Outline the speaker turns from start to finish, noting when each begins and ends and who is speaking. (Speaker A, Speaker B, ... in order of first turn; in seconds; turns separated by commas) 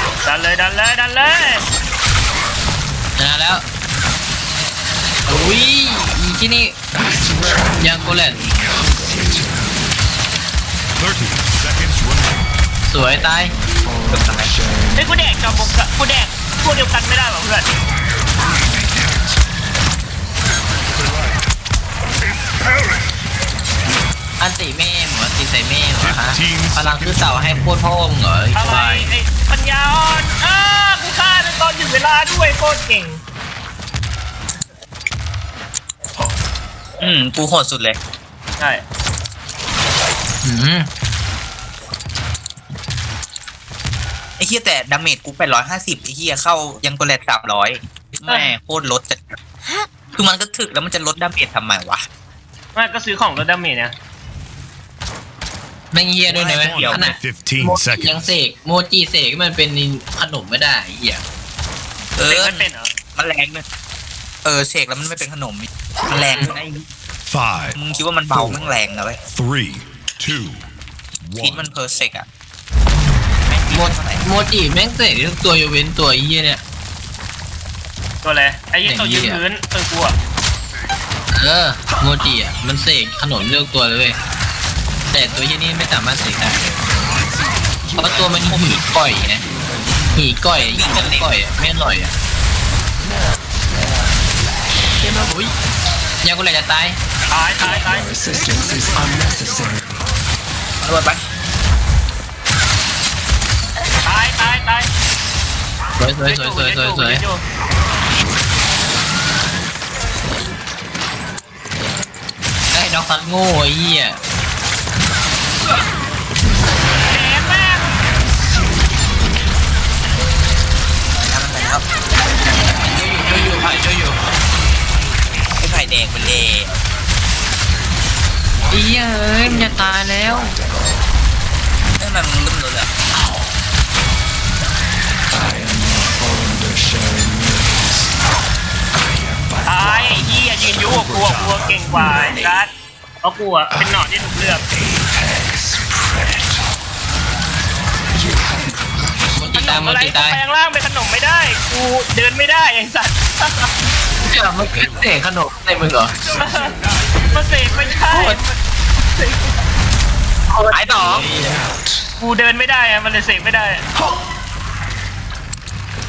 Speaker A: 0.2-1.6, Speaker B: 3.2-3.6, Speaker B: 5.3-6.8, Speaker B: 7.6-8.5, Speaker C: 8.8-9.4, Speaker D: 10.9-12.5, Speaker B: 12.8-13.6, Speaker E: 14.1-14.5, Speaker A: 14.9-17.7, Speaker B: 24.4-29.1, Speaker D: 26.0-27.7, Speaker A: 28.5-33.2, Speaker E: 37.0-38.0, Speaker B: 40.4-40.9, Speaker E: 44.4-49.4, Speaker A: 48.3-48.5, Speaker E: 50.1-52.0, Speaker A: 52.7-53.9, Speaker B: 55.9-61.2, Speaker E: 56.3-57.1, Speaker D: 56.4-58.4, Speaker E: 62.2-63.6, Speaker A: 62.2-62.9, Speaker E: 64.4-66.8, Speaker B: 66.2-66.5, Speaker D: 67.2-67.8, Speaker E: 67.8-69.2, Speaker D: 68.3-68.7, Speaker D: 69.3-70.7, Speaker D: 71.2-71.7, Speaker E: 71.4-72.2, Speaker E: 73.5-74.2, Speaker B: 73.7-76.6, Speaker A: 78.2-80.2, Speaker B: 78.8-79.4, Speaker B: 81.3-84.2, Speaker B: 85.1-86.6, Speaker B: 88.0-89.4, Speaker B: 90.1-92.1, Speaker E: 90.6-91.3, Speaker B: 95.3-95.5, Speaker B: 96.2-97.0, Speaker A: 97.3-98.1, Speaker C: 98.3-99.6, Speaker E: 100.8-101.2, Speaker A: 104.0-104.9, Speaker B: 106.0-107.2, Speaker A: 106.2-107.4, Speaker B: 112.7-114.2, Speaker A: 117.1-118.0, Speaker E: 121.3-121.8, Speaker B: 122.8-124.2, Speaker E: 125.6-126.7, Speaker B: 128.7-130.6, Speaker E: 132.0-132.9, Speaker C: 136.4-137.4, Speaker A: 139.7-142.7, Speaker D: 140.8-141.8, Speaker A: 143.2-144.6, Speaker B: 149.3-150.4, Speaker A: 149.5-153.7, Speaker B: 154.3-156.2, Speaker D: 154.8-155.0, Speaker A: 156.4-156.7, Speaker A: 157.3-158.6, Speaker B: 158.1-158.4, Speaker A: 159.2-159.5, Speaker B: 160.5-161.6, Speaker E: 160.7-161.2, Speaker A: 162.2-163.8